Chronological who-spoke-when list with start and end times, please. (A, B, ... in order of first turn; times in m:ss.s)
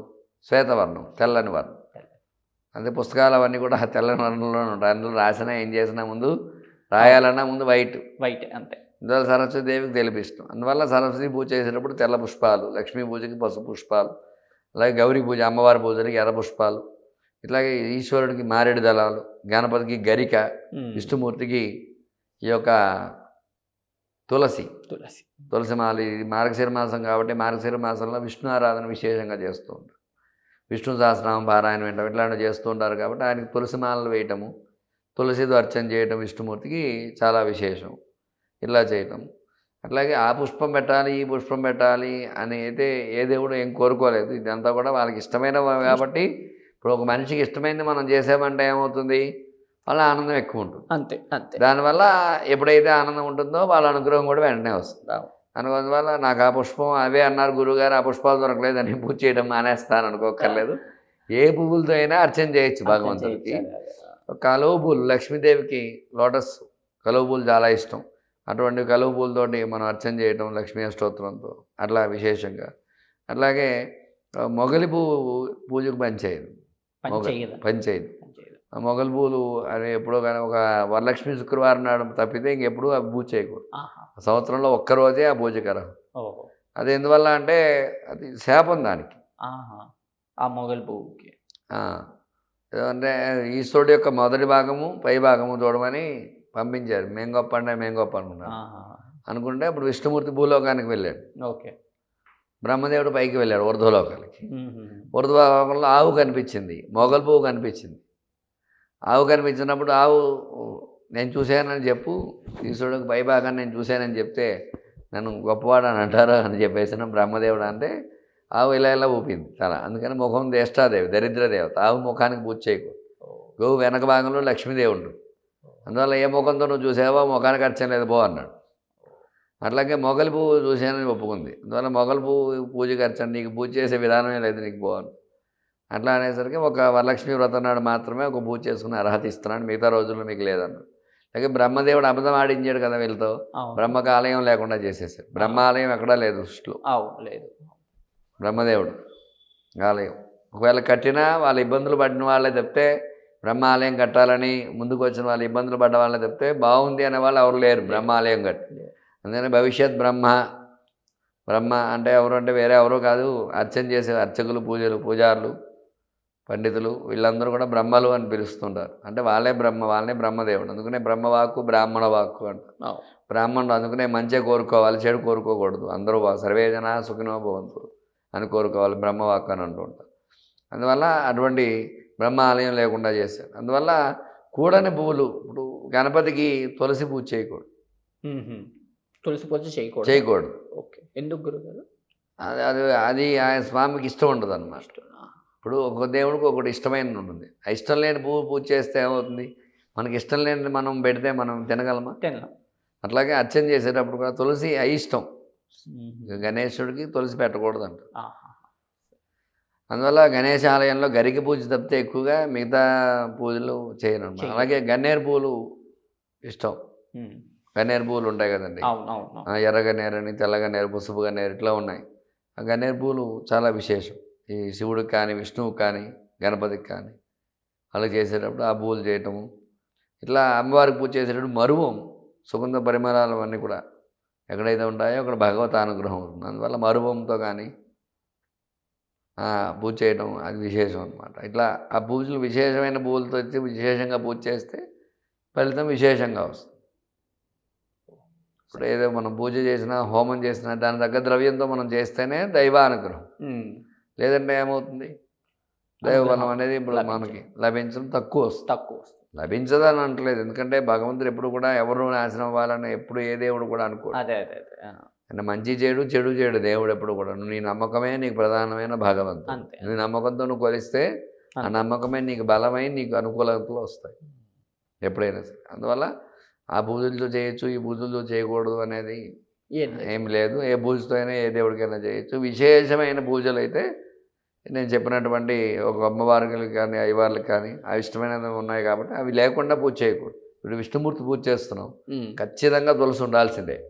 0:00.5-0:01.8 A
0:02.8-0:06.3 A
0:06.9-0:08.0 A
0:08.2-0:08.8 B
0:09.0-0:14.1 A
0:14.8-0:16.8 A
0:17.4-0:21.7 A
0:20.7-0:21.1 B
0:22.4-0:23.1 A
0:24.3-0:24.7 A
0:24.9-0:25.3 B
0:25.5-0:29.9 A
0:30.7-0:34.5 A
0:35.2-0:38.0 A
0:38.6-0:39.2 A
0:39.8-0:46.3 A
0:46.8-0:49.3 A
0:49.9-0:50.9 A
0:50.9-0:51.6 B
0:51.6-0:55.0 A
0:55.6-1:00.8 A
1:00.4-1:00.7 B
1:01.4-1:03.6 A
1:02.9-1:04.1 B
1:04.3-1:12.7 A
1:13.3-1:13.7 A
1:14.5-1:16.5 A
1:17.0-1:17.6 B
1:17.1-1:18.2 A
1:18.2-1:18.6 B
1:18.7-1:23.6 A
1:23.7-1:24.1 B
1:24.2-1:25.9 A
1:26.2-1:26.5 B
1:26.8-1:29.2 A
1:29.4-1:29.9 B
1:30.4-1:31.4 B
1:31.7-1:32.0 A
1:32.7-1:38.5 A
1:38.5-1:39.1 B
1:39.3-1:41.2 A
1:41.4-1:41.7 B
1:42.6-1:44.4 A
1:44.5-1:45.1 B
1:45.1-1:48.0 A
1:49.1-1:54.5 A
1:55.1-1:57.9 A
1:58.6-2:03.0 A
2:03.2-2:03.5 B
2:03.6-2:05.2 A
2:05.9-2:08.5 A
2:09.6-2:15.1 A
2:15.9-2:26.8 A
2:23.6-2:23.9 B
2:25.4-2:25.6 B
2:26.8-2:27.8 B
2:28.4-2:29.0 A
2:29.8-2:32.9 A
2:33.4-2:38.6 A
2:37.8-2:38.1 B
2:39.2-2:40.4 A
2:41.5-2:45.5 A
2:46.5-2:52.7 A
2:53.3-3:00.1 A
3:00.7-3:04.0 A
3:04.6-3:07.7 A
3:08.2-3:08.7 B
3:09.2-3:10.2 B
3:10.0-3:10.6 A
3:10.8-3:11.8 B
3:12.4-3:14.9 A
3:14.8-3:15.3 B
3:15.6-3:22.2 A
3:22.2-3:22.5 B
3:23.0-3:25.3 A
3:25.8-3:26.4 B
3:26.3-3:28.0 A
3:28.2-3:28.7 B
3:29.9-3:32.8 A
3:33.4-3:35.5 A
3:34.4-3:34.7 B
3:36.4-3:36.8 A
3:37.8-3:38.9 A
3:38.8-3:39.5 B
3:39.5-3:42.0 A
3:42.6-3:47.2 A
3:47.9-3:49.4 A
3:50.2-3:52.0 A
3:52.5-3:53.8 A
3:54.5-3:57.7 A
3:59.4-4:04.8 A
4:05.6-4:06.7 A
4:08.7-4:13.3 A
4:13.4-4:13.8 B
4:14.2-4:15.1 A
4:16.0-4:18.7 A
4:16.0-4:17.4 B
4:18.7-4:19.2 B
4:19.4-4:24.2 A
4:24.1-4:25.0 B
4:25.3-4:31.1 A
4:29.5-4:29.9 B
4:31.6-4:34.2 A
4:35.0-4:36.1 A
4:36.8-4:39.2 A
4:39.7-4:40.1 B
4:40.0-4:43.9 A
4:44.7-4:53.8 A
4:52.1-4:52.4 B